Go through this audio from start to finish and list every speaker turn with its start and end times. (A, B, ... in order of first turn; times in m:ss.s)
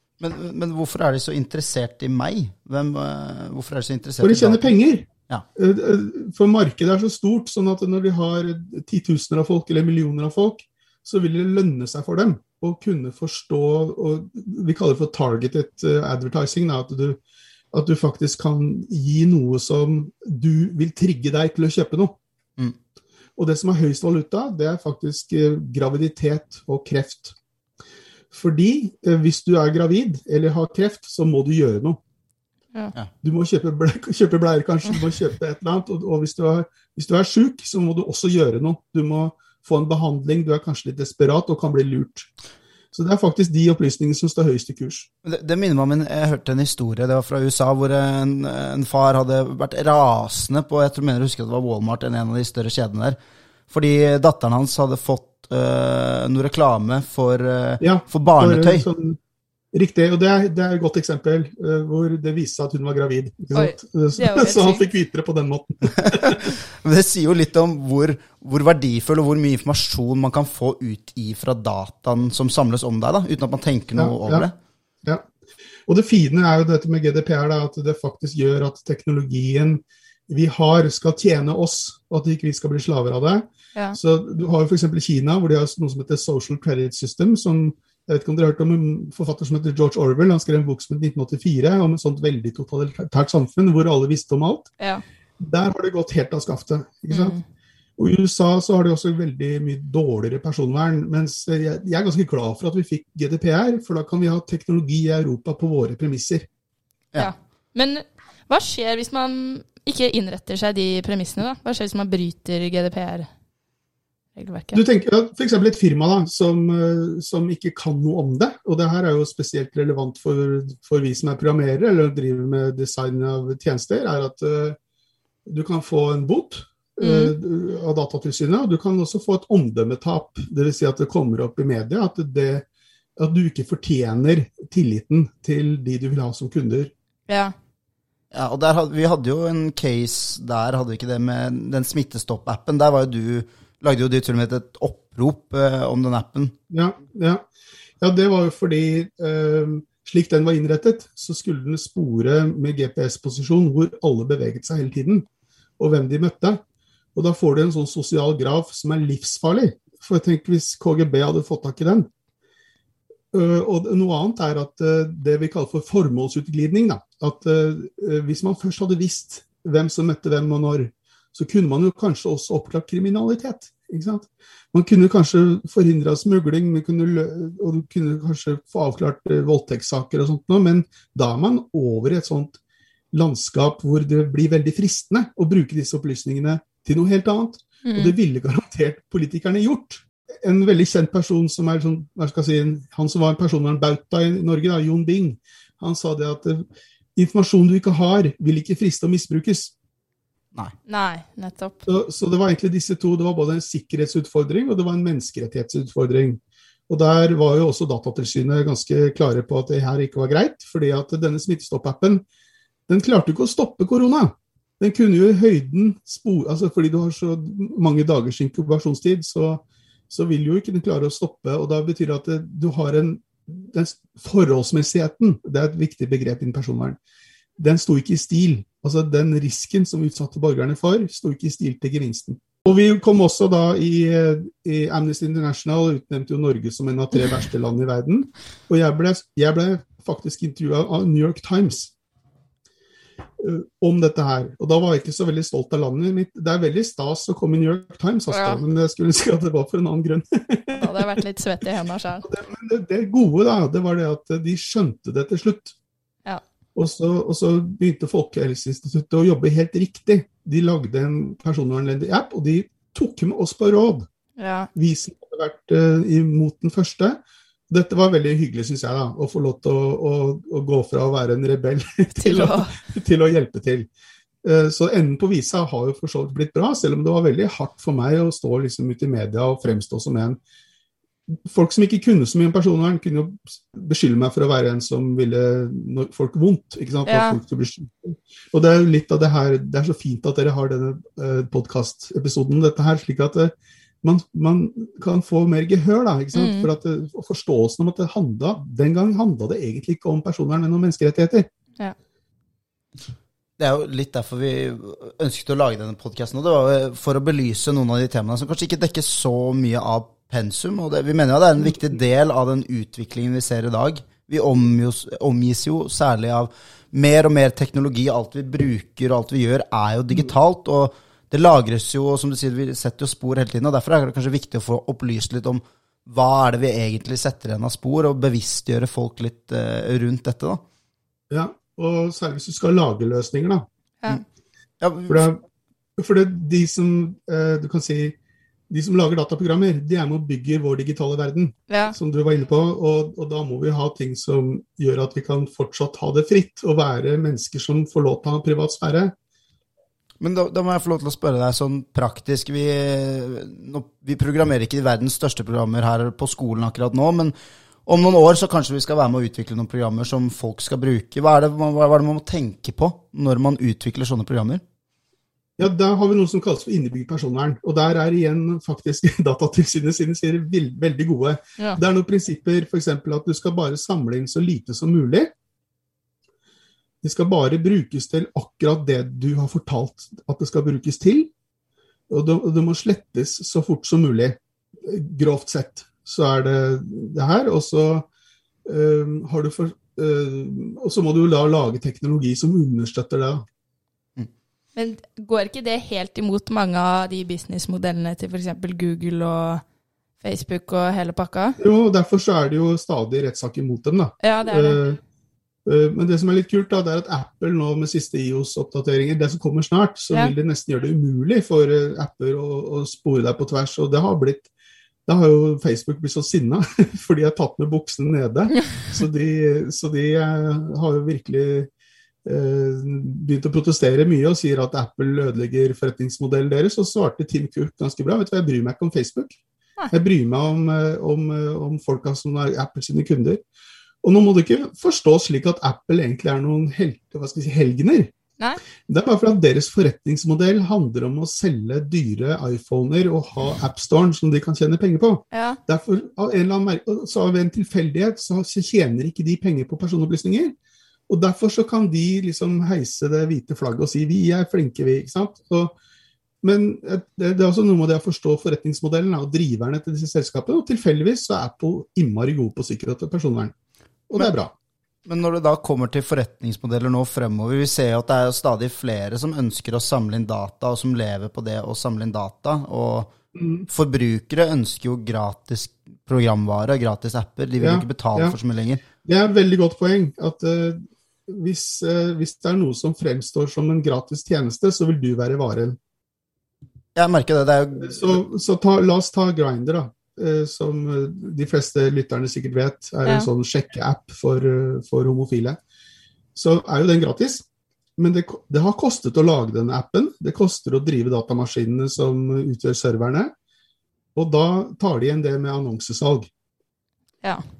0:00.2-0:04.7 A
0:04.2-0:17.2 B
0:17.7-0:22.2 B
0:23.4-0:27.3 B
0:28.3-0:32.0 B
0:33.2-0:42.3 B
0:42.9-0:45.1 B
0:45.2-0:53.2 A
0:53.7-0:58.8 A
0:57.8-0:59.2 B
0:59.7-1:06.4 B
1:03.5-1:04.8 C
1:05.9-1:14.5 A
1:13.9-1:14.5 B
1:15.8-1:34.7 B
1:35.4-1:37.4 B
1:37.1-1:37.4 C
1:38.0-1:46.5 B
1:47.2-1:53.3 C
1:54.4-1:54.8 C
1:54.7-2:04.8 B
2:05.4-2:12.6 B
2:07.0-2:07.3 C
2:13.2-2:16.9 B
2:17.3-2:17.5 C
2:18.3-2:26.5 A
2:26.7-2:27.4 B
2:28.0-2:35.3 B
2:35.8-2:36.6 B
2:37.1-2:42.1 B
2:43.3-3:02.6 B
3:03.1-3:19.7 B
3:07.8-3:08.1 C
3:20.9-3:21.8 C
3:21.8-3:32.2 B
3:32.9-3:47.0 B
3:47.6-4:01.9 B
4:03.4-4:11.2 B
4:08.3-4:08.6 C
4:10.7-4:12.3 C
4:12.2-4:15.7 B
4:16.7-4:24.1 B
4:24.4-4:24.7 C
4:24.7-4:33.9 B
4:32.1-4:32.8 C
4:34.4-4:40.4 B
4:41.3-5:01.5 B
4:47.0-4:47.4 C
4:56.3-4:56.7 C
5:03.6-5:30.6 A
5:31.3-5:33.6 B
5:34.8-5:35.3 A
5:35.1-5:35.4 B
5:36.0-5:38.2 B
5:38.7-5:49.1 B
5:41.7-5:42.0 C
5:50.2-5:57.3 A
5:57.8-6:04.6 A
6:05.6-6:15.3 B
6:17.0-6:21.3 B
6:22.1-6:28.1 B
6:28.6-6:33.4 B
6:34.8-6:39.6 C
6:40.2-6:41.6 C
6:41.6-6:45.0 B
6:44.2-6:44.8 C
6:45.6-6:54.5 B
6:55.0-7:01.7 B
7:02.2-7:09.4 B
7:09.9-7:13.4 B
7:14.0-7:18.1 B
7:18.9-7:30.5 B
7:25.3-7:25.6 C
7:31.1-7:35.7 B
7:36.4-7:43.5 B
7:44.1-7:44.5 B
7:45.0-7:53.1 A
7:53.4-7:53.7 B
7:53.7-7:58.8 A
7:57.6-7:58.4 B
7:59.0-8:05.8 B
8:07.0-8:08.2 A
8:07.8-8:15.6 B
8:16.3-8:17.4 B
8:18.0-8:23.3 B
8:24.1-8:26.3 B